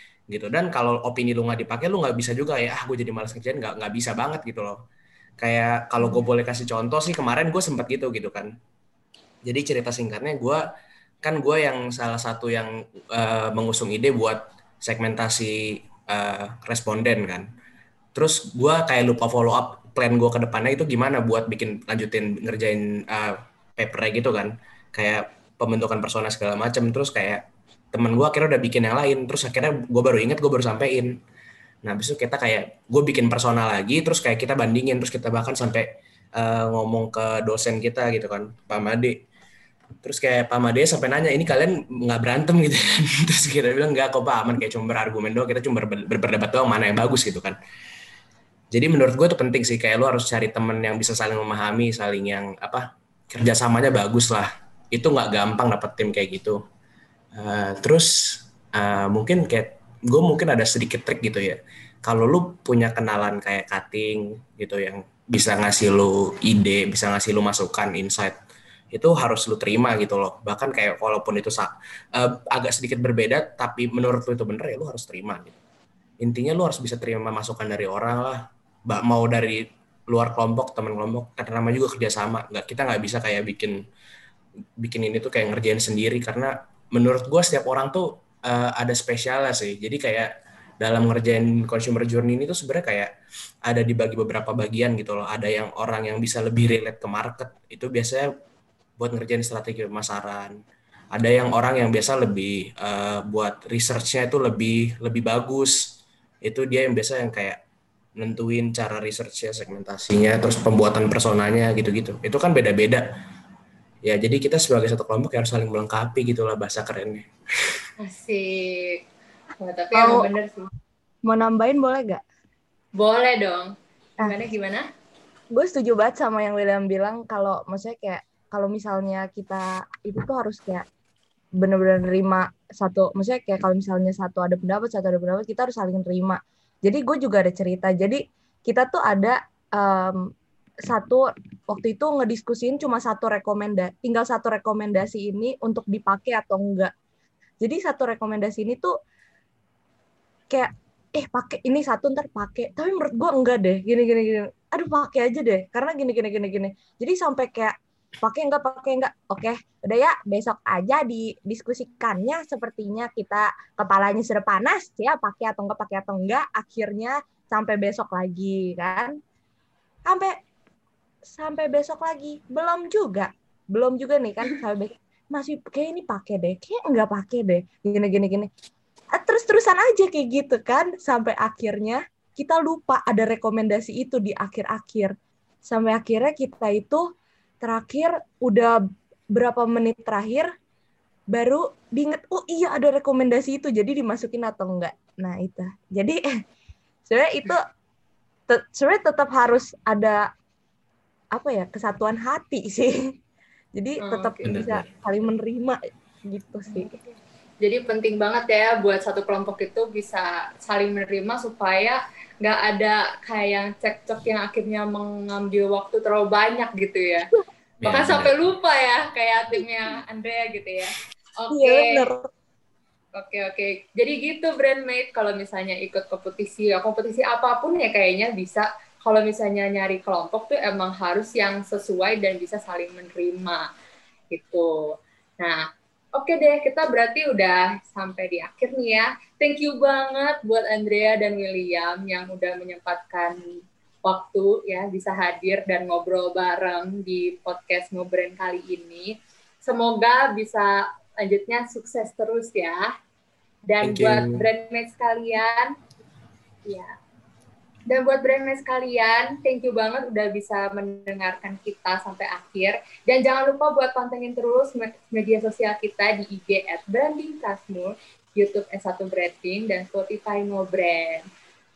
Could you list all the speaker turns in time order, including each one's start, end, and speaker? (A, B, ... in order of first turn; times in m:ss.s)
0:00.3-0:04.8 A
0:05.4-0:08.5 A
0:09.4-0:10.6 A
0:11.2-0:17.5 A
0:18.2-0:27.4 A
0:27.9-0:31.1 A
0:31.8-0:35.9 A
0:36.4-0:39.2 A
0:40.0-0:47.6 A
0:48.7-0:56.6 A
0:57.4-1:08.4 A
1:08.9-1:15.6 A
1:16.2-1:23.8 A
1:24.8-1:30.3 A
1:30.8-1:33.1 A
1:33.7-1:38.3 A
1:39.0-1:40.6 A
1:41.1-1:45.8 A
1:46.4-1:47.6 A
1:48.2-1:53.0 A
1:54.0-1:57.2 A
1:58.0-1:59.0 B
1:59.6-2:00.7 B
2:00.0-2:00.3 C
2:01.3-2:02.2 C
2:03.0-2:04.8 B
2:05.5-2:10.8 C
2:11.6-2:20.2 C
2:20.9-2:26.9 C
2:27.6-2:28.9 C
2:30.5-2:49.2 C
2:50.1-2:50.4 C
2:51.3-2:58.5 C
2:59.2-3:05.1 C
3:05.6-3:07.0 C
3:07.6-3:08.8 C
3:09.3-3:10.5 C
3:11.3-3:16.2 C
3:17.1-3:17.6 C
3:18.5-3:20.2 C
3:21.4-3:23.0 C
3:23.8-3:25.8 C
3:24.0-3:24.4 B
3:24.4-3:24.9 A
3:26.3-3:27.0 C
3:26.7-3:37.3 B
3:37.8-3:38.4 A
3:37.8-3:42.0 B
3:41.5-3:42.3 C
3:43.2-3:53.6 B
3:54.3-3:54.7 B
3:56.2-4:03.4 B
4:04.0-4:09.1 B
4:09.6-4:12.9 B
4:13.7-4:15.7 B
4:13.8-4:14.5 A
4:17.9-4:31.3 B